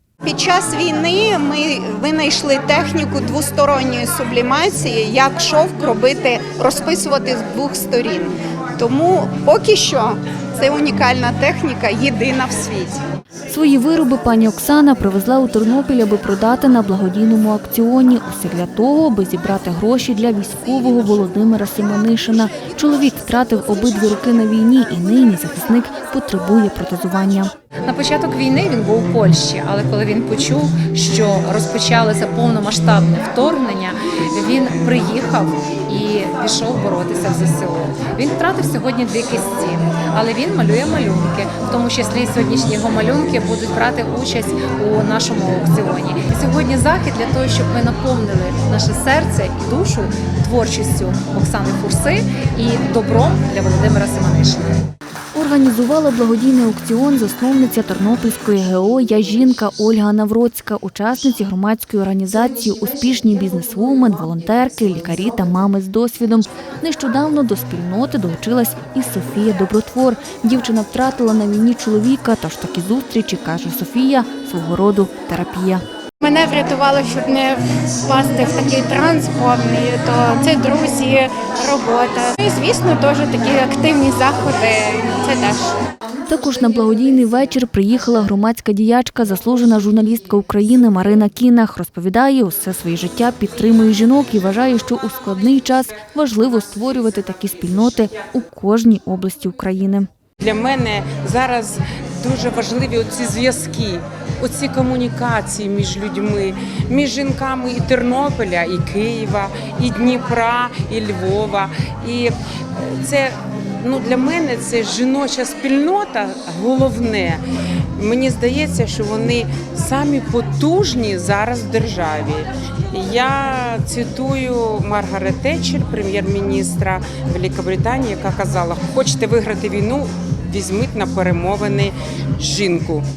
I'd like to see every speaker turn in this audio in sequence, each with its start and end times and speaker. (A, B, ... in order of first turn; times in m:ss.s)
0:00.2-0:13.0 A
0:13.5-0:27.5 B
0:27.8-0:54.8 C
0:55.3-1:15.8 B
1:16.2-1:25.7 D
1:26.3-1:40.1 B
1:40.4-1:57.4 E
1:58.0-2:13.0 E